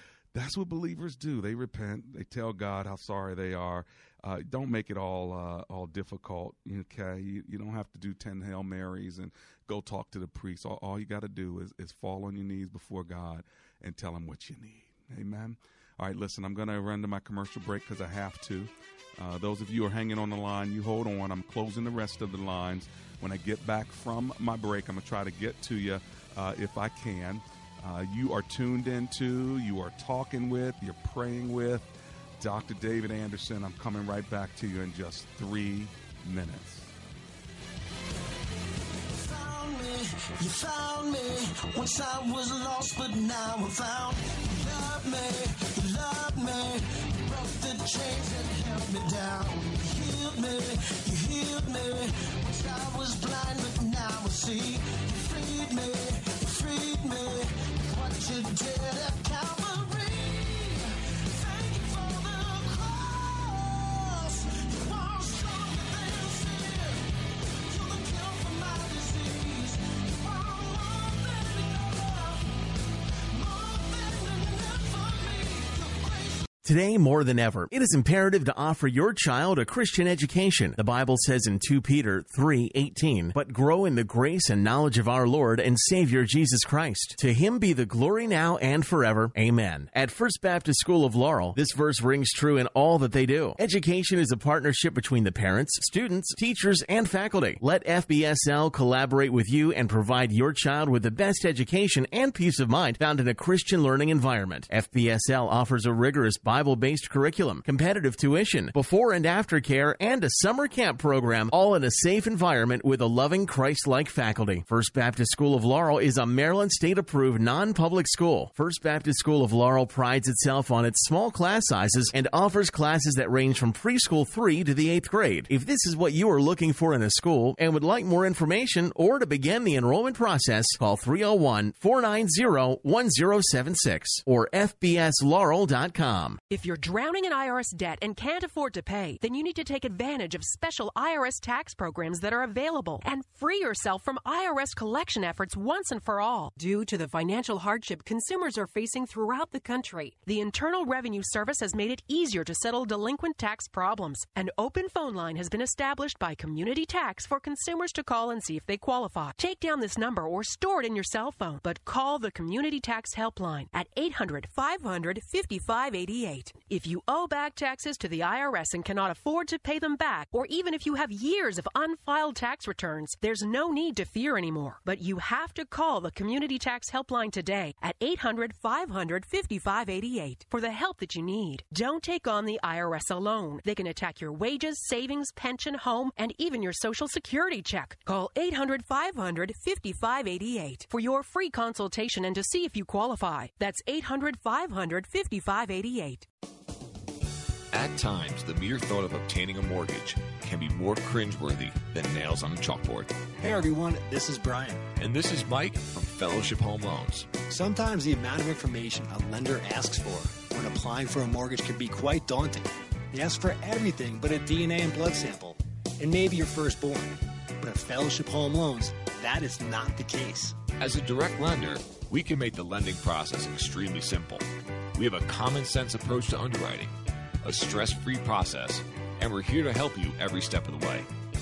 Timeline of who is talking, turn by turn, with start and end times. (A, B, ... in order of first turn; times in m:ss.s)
0:00.3-0:36.9 A
0:39.1-1:12.6 B
1:13.3-1:16.5 B
1:16.6-2:16.4 C
2:16.5-3:16.2 D
3:17.7-3:23.1 E
3:23.4-3:24.8 F
3:25.0-3:27.4 E
3:27.4-3:40.6 F
3:40.8-3:51.1 E